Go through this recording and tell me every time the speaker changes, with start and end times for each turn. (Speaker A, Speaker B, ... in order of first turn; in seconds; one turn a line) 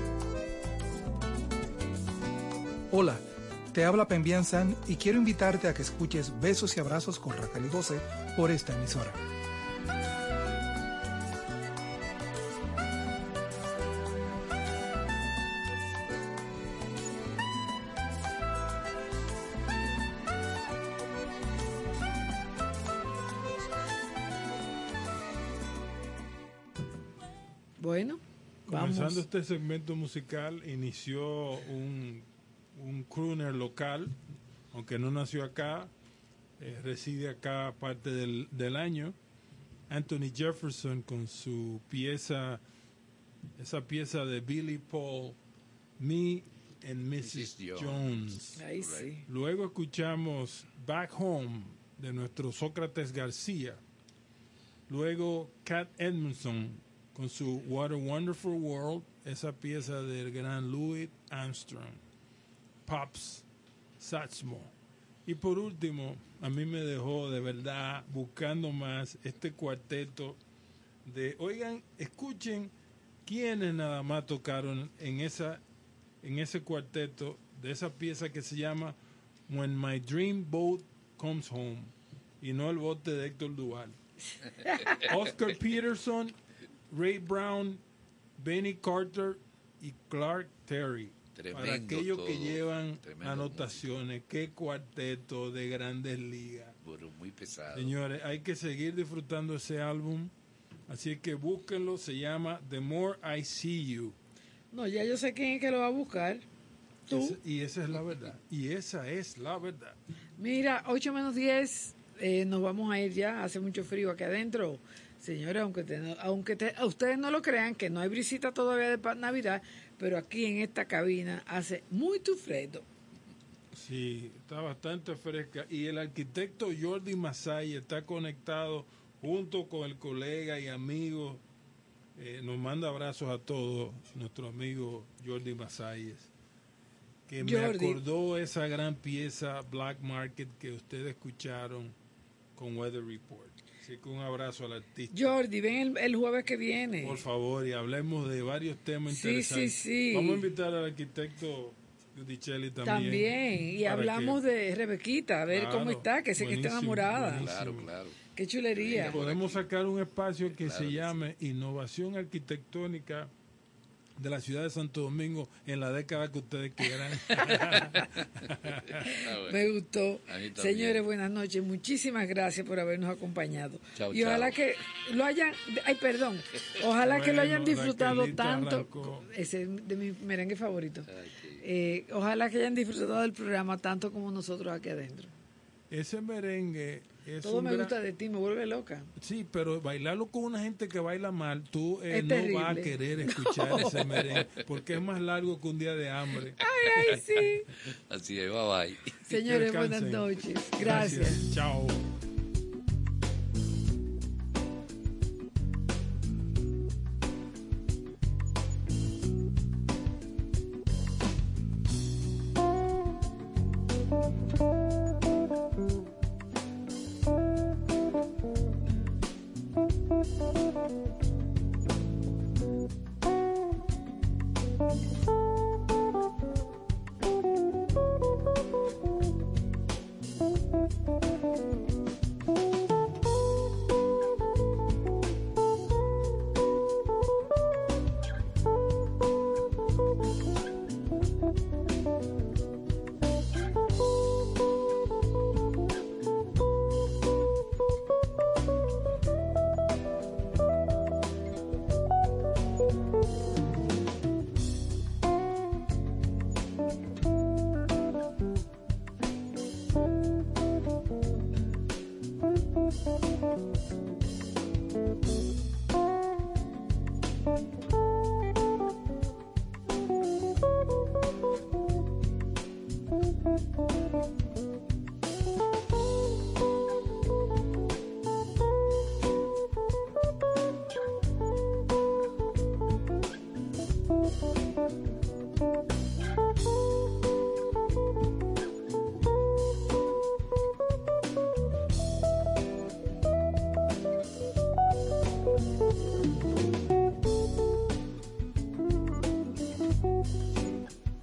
Speaker A: 2.9-9.2
Speaker B: 27.8-29.2
Speaker C: 28.7-34.1
Speaker C: 34.7-35.9
Speaker C: 36.6-39.1
Speaker C: 39.9-42.6
Speaker C: 43.6-45.4
Speaker C: 46.0-48.6
Speaker D: 47.2-49.1
Speaker B: 48.5-49.2
Speaker C: 49.2-53.8
Speaker C: 54.9-62.0
Speaker C: 62.9-63.5
Speaker C: 64.0-64.7
Speaker C: 65.2-70.4
Speaker C: 71.0-72.7
Speaker C: 73.2-75.6
Speaker C: 76.2-79.0
Speaker C: 79.5-83.9
Speaker B: 84.6-85.0
Speaker C: 85.0-86.3
Speaker C: 86.9-87.8
Speaker C: 88.4-96.7
Speaker D: 91.3-94.0
Speaker D: 96.8-98.0
Speaker C: 97.7-100.3
Speaker C: 100.9-104.2
Speaker B: 104.7-106.4
Speaker C: 107.1-110.0
Speaker B: 107.1-107.4
Speaker B: 110.4-122.8
Speaker C: 123.7-131.4
Speaker C: 132.2-136.3
Speaker C: 137.3-141.9
Speaker B: 137.4-138.0
Speaker C: 142.6-145.4
Speaker B: 145.1-147.2
Speaker C: 147.0-154.4
Speaker B: 149.1-150.4
Speaker B: 152.8-157.5
Speaker C: 155.5-157.9
Speaker D: 157.3-158.2
Speaker B: 158.3-159.2
Speaker D: 158.7-159.7
Speaker C: 158.9-163.3
Speaker D: 160.4-161.3
Speaker C: 164.2-169.0
Speaker D: 167.3-169.7
Speaker B: 169.0-185.3
Speaker D: 170.3-171.0
Speaker D: 173.9-174.6
Speaker C: 177.0-179.3
Speaker D: 181.1-181.6
Speaker C: 185.9-187.9
Speaker B: 187.4-189.1
Speaker C: 189.2-196.6
Speaker B: 192.1-194.3
Speaker D: 194.3-194.9
Speaker B: 196.6-197.7
Speaker D: 197.0-197.4
Speaker D: 197.9-199.2
Speaker B: 199.2-201.4
Speaker C: 199.3-202.0